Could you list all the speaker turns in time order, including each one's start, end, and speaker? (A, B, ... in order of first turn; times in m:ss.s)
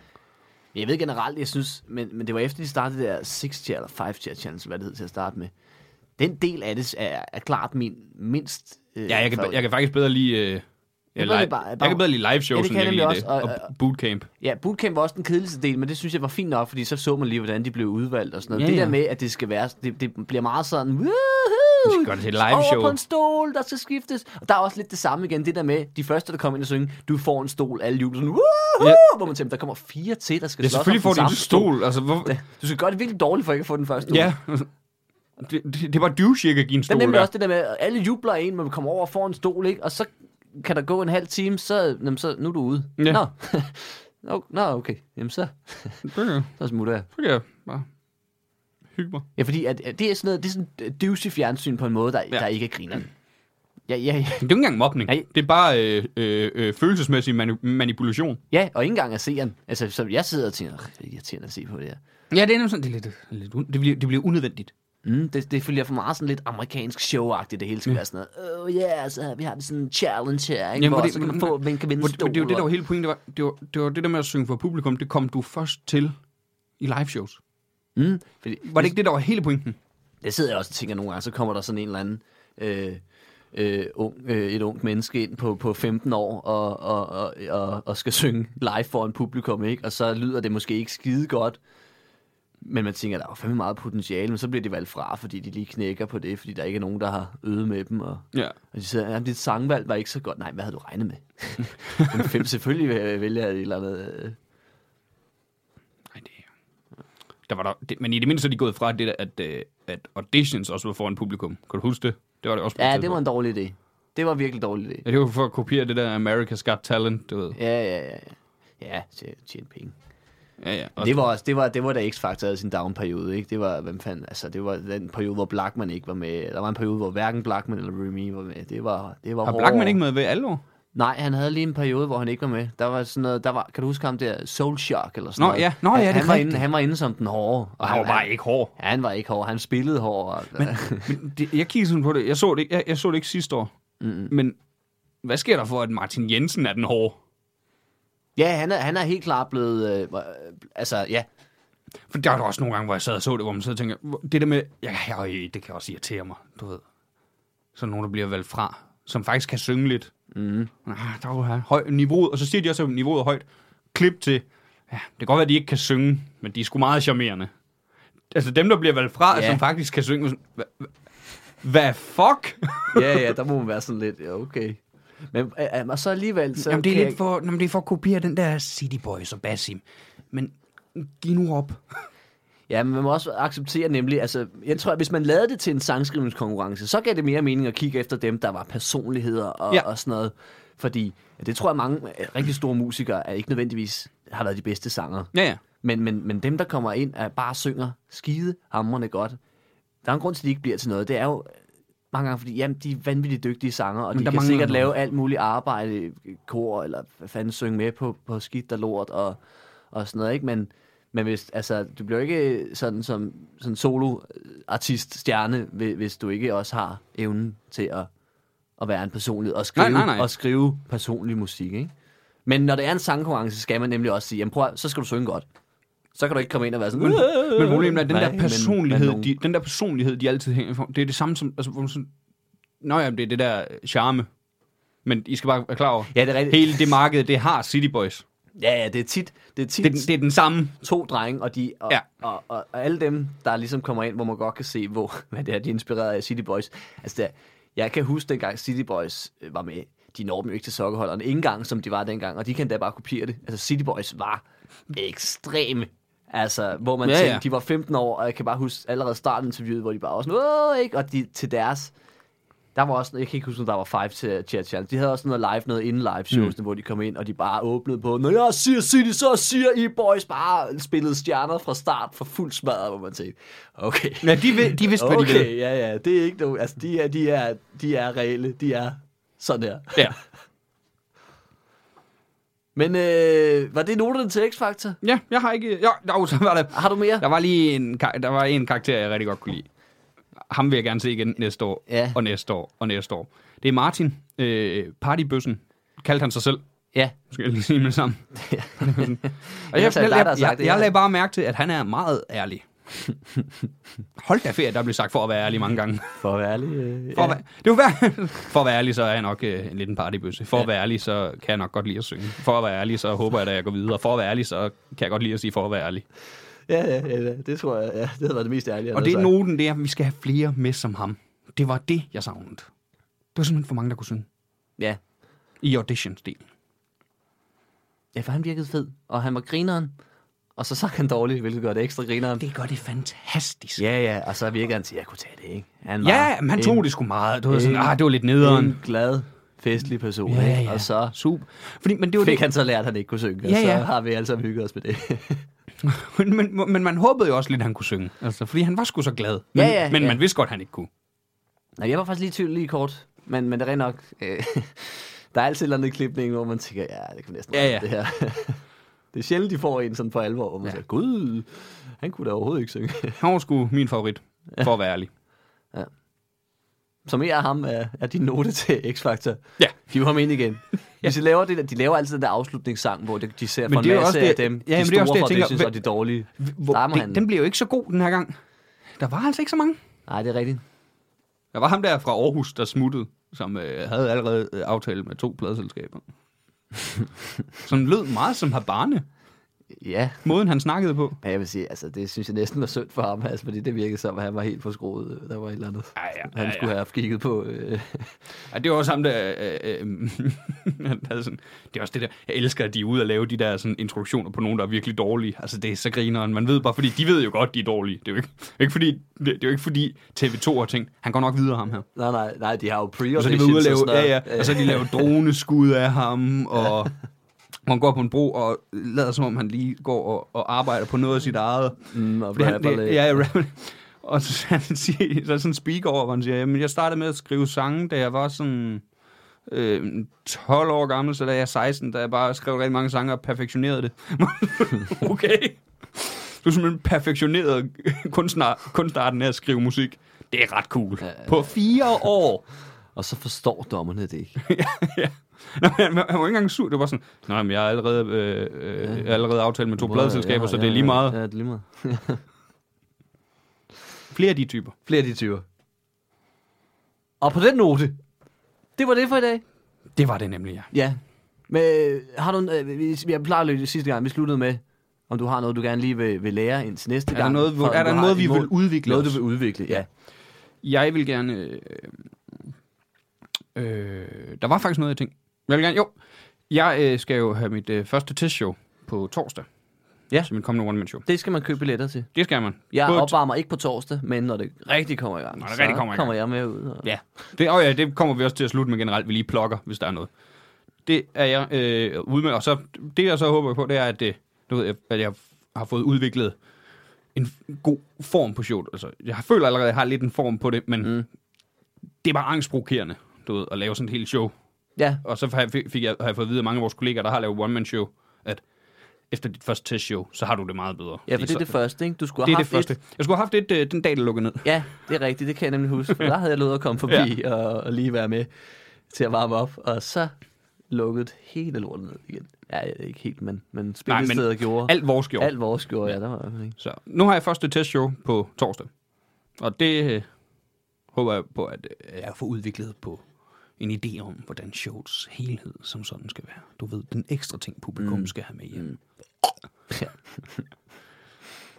0:00.7-0:05.5 A
0:06.2-0:09.6 A
0:09.1-0:10.6 B
0:11.1-0:14.3 B
0:11.2-0:13.7 A
0:14.4-0:34.3 A
0:18.5-0:19.0 B
0:21.8-0:23.0 B
0:30.6-0:32.3 B
0:34.1-0:34.7 B
0:35.4-0:37.3 B
0:36.9-0:46.0 A
0:46.0-0:46.6 B
0:46.6-0:47.1 A
0:47.1-0:47.9 B
0:48.9-0:49.2 B
0:49.4-0:53.1 A
0:53.9-0:54.5 A
0:54.4-0:58.4 B
0:58.5-1:02.0 A
1:02.3-1:04.7 B
1:05.0-1:12.7 A
1:10.8-1:16.2 B
1:16.8-1:17.4 B
1:18.0-1:19.0 A
1:18.6-1:19.8 B
1:20.2-1:23.0 A
1:23.5-1:31.6 A
1:32.6-1:44.4 A
1:46.1-1:46.5 B
1:47.5-1:53.2 B
1:52.8-1:55.0 A
1:55.0-1:57.6 B
1:57.5-1:59.9 A
2:00.6-2:01.2 B
2:01.0-2:10.0 A
2:09.4-2:10.6 B
2:10.9-2:21.1 A
2:15.4-2:16.6 B
2:17.8-2:18.7 B
2:20.6-2:23.7 B
2:24.0-2:24.3 A
2:24.3-2:24.6 B
2:25.2-2:27.2 B
2:28.4-2:31.3 A
2:32.1-2:36.8 B
2:37.7-2:40.1 B
2:40.3-2:40.7 A
2:40.8-2:47.5 B
2:48.3-2:50.9 B
2:49.3-2:49.6 A
2:51.6-2:53.2 B
2:52.9-2:54.8 A
2:55.3-2:57.2 A
2:56.6-3:02.0 B
3:02.7-3:15.3 A
3:15.3-3:15.6 B
3:15.8-3:19.4 A
3:20.0-3:21.6 A
3:22.1-3:29.4 A
3:24.1-3:24.9 B
3:29.9-3:38.1 A
3:38.8-3:41.9 A
3:39.8-3:40.3 B
3:42.4-3:45.4 A
3:46.1-3:49.3 A
3:46.9-3:52.1 B
3:52.8-3:54.3 B
3:55.0-3:58.2 B
3:56.1-3:56.9 A
3:58.6-4:00.1 A
3:59.8-4:00.8 B
4:00.8-4:21.9 A
4:17.0-4:17.4 B
4:22.7-4:40.1 A
4:34.2-4:35.5 B
4:42.8-4:45.0 A
4:45.0-4:49.7 B
4:46.7-4:47.2 A
4:50.5-4:56.6 B
4:51.9-4:52.2 A
4:57.3-5:02.7 B
4:58.3-5:00.9 A
5:04.2-5:06.2 B
5:06.2-5:07.4 A
5:07.1-5:16.0 B
5:16.7-5:19.3 A
5:18.9-5:22.7 B
5:23.3-5:24.3 B
5:25.6-5:26.5 B
5:28.1-5:29.9 A
5:30.6-5:32.4 A
5:32.4-5:33.8 B
5:33.8-5:36.8 A
5:36.0-5:38.8 B
5:37.5-5:41.1 A
5:40.2-5:42.4 B
5:42.2-5:45.4 A
5:43.4-5:43.9 B
5:45.8-5:50.9 B
5:49.5-5:50.2 A
5:51.8-5:58.6 A
5:57.5-5:57.9 B
5:59.1-6:03.2 A
6:03.2-6:05.1 B
6:07.0-6:17.2 A
6:13.7-6:15.8 B
6:16.4-6:18.4 B
6:19.0-6:19.8 B
6:20.1-6:20.6 A
6:21.5-6:26.0 B
6:27.6-6:29.0 B
6:29.7-6:30.2 A
6:30.2-6:31.2 B
6:31.2-6:38.2 A
6:36.0-6:36.7 B
6:38.5-6:51.8 B
6:51.9-6:55.1 A
6:53.1-6:56.9 B
6:57.6-7:08.8 B
7:01.9-7:03.2 A
7:09.5-7:22.4 B
7:21.0-7:21.5 A
7:22.9-7:24.4 A
7:24.4-7:31.2 B
7:28.8-7:29.1 A
7:29.8-7:32.2 A
7:34.1-7:34.7 B
7:34.8-7:35.4 A
7:37.2-7:38.0 A
7:38.8-7:39.4 A
7:39.9-7:40.7 B
7:40.7-7:49.8 A
7:47.1-7:49.8 B
7:50.6-7:52.1 B
7:53.5-7:55.9 B
7:56.5-7:59.5 B
8:00.2-8:01.0 B
8:01.0-8:02.1 A
8:02.1-8:03.1 B
8:02.7-8:06.8 A
8:05.3-8:06.1 B
8:06.8-8:10.1 B
8:10.8-8:16.4 B
8:17.1-8:21.0 B
8:22.0-8:24.3 B
8:24.8-8:25.0 A
8:25.0-8:28.4 B
8:29.1-8:31.6 B
8:31.1-8:32.7 A
8:32.2-8:34.5 B
8:34.4-8:38.3 A
8:38.9-8:40.2 A
8:40.7-8:46.6 A
8:43.9-8:45.3 B
8:46.6-8:48.7 B
8:49.4-8:50.1 B
8:50.9-8:53.0 B
8:53.6-8:58.7 B
8:57.8-8:58.8 A
8:59.7-9:00.4 A